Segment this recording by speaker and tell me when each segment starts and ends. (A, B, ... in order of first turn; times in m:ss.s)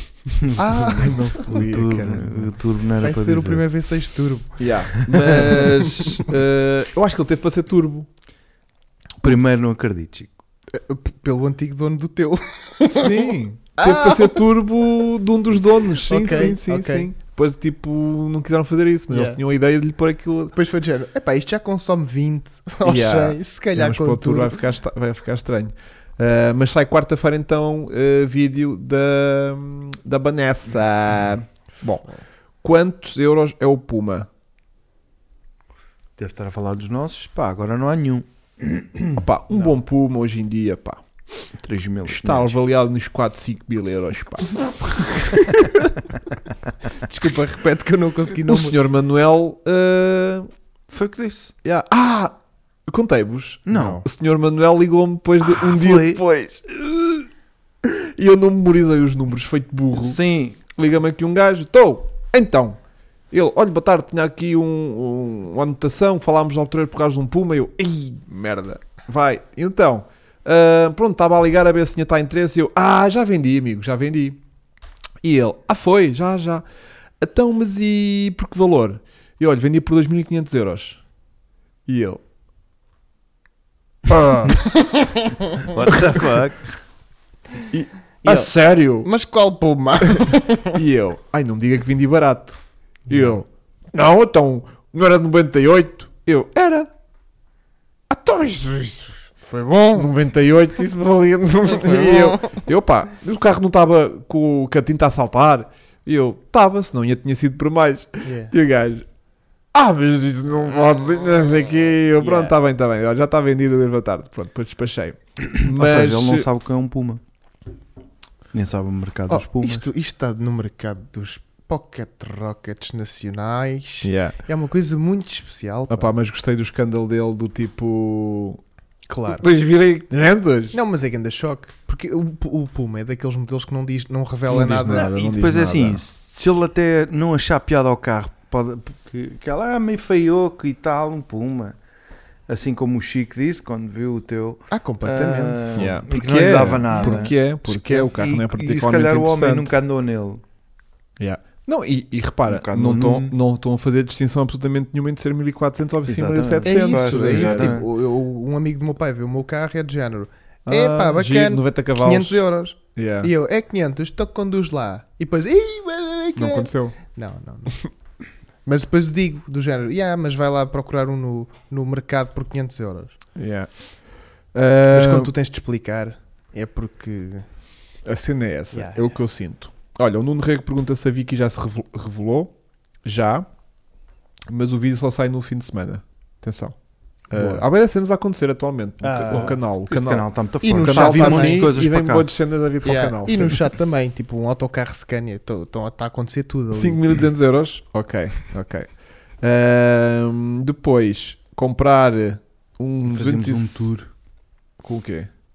0:00.5-0:01.2 A
0:00.9-0:02.6 B
0:01.4-0:03.6 C
0:03.0-0:04.6 A
0:04.6-0:08.1 B
0:09.2-0:10.3 C
0:10.7-0:14.4 A
0:12.8-0:20.5 B
0:16.0-0:17.1 A
0:19.1-0:19.4 A
0:20.5-0:24.6 A
0:22.8-0:32.1 B
0:32.6-0:34.3 B
0:36.2-0:39.2 C
0:39.2-0:41.4 B
0:39.5-0:39.8 A
0:41.6-0:42.6 C
0:42.0-0:46.0 B
0:47.0-0:48.8 A
0:48.4-0:50.5 B
0:50.9-0:51.5 C
0:51.6-0:52.3 B
0:52.9-0:57.3 B
0:53.7-0:54.0 C
0:55.4-0:56.2 C
0:57.8-1:00.2 B
0:59.9-1:00.6 C
1:00.7-1:02.8 B
1:03.3-1:14.4 B
1:15.2-1:16.6 B
1:17.2-1:21.0 B
1:21.9-1:22.2 B
1:24.1-1:24.7 B
1:24.7-1:25.3 A
1:25.7-1:26.8 C
1:25.9-1:26.2 B
1:27.7-1:29.1 B
1:28.2-1:30.8 A
1:30.1-1:32.6 B
1:33.1-1:33.3 A
1:33.1-1:36.9 B
1:38.1-1:39.2 B
1:39.5-1:40.1 A
1:39.9-1:49.0 B
1:41.8-1:42.6 A
1:48.2-1:48.5 A
1:49.7-1:56.5 B
1:52.2-1:52.5 A
1:55.6-1:57.2 C
1:58.5-1:59.8 C
1:59.3-2:06.1 A
2:04.0-2:04.4 B
2:05.9-2:08.6 B
2:09.1-2:09.5 A
2:09.3-2:10.8 B
2:10.7-2:15.1 A
2:14.5-2:16.0 B
2:14.9-2:21.8 C
2:22.5-2:27.3 C
2:24.7-2:26.0 A
2:25.8-2:29.7 B
2:26.9-2:28.1 A
2:28.0-2:30.4 C
2:31.2-2:37.8 B
2:32.4-2:33.3 C
2:36.1-2:37.9 C
2:36.6-2:47.8 A
2:40.6-2:42.4 B
2:42.9-2:43.3 B
2:46.4-2:47.0 B
2:48.6-2:53.1 A
2:53.4-2:53.7 B
2:54.5-2:55.3 B
2:54.9-2:57.4 A
2:58.0-3:02.5 B
2:58.7-2:59.2 A
3:03.0-3:03.5 B
3:04.5-3:06.7 B
3:07.3-3:13.6 B
3:07.3-3:07.6 A
3:09.0-3:09.6 A
3:09.3-3:12.3 C
3:10.6-3:11.7 A
3:12.8-3:17.0 A
3:16.7-3:18.9 B
3:19.4-3:23.9 B
3:23.1-3:24.1 C
3:24.8-3:25.3 B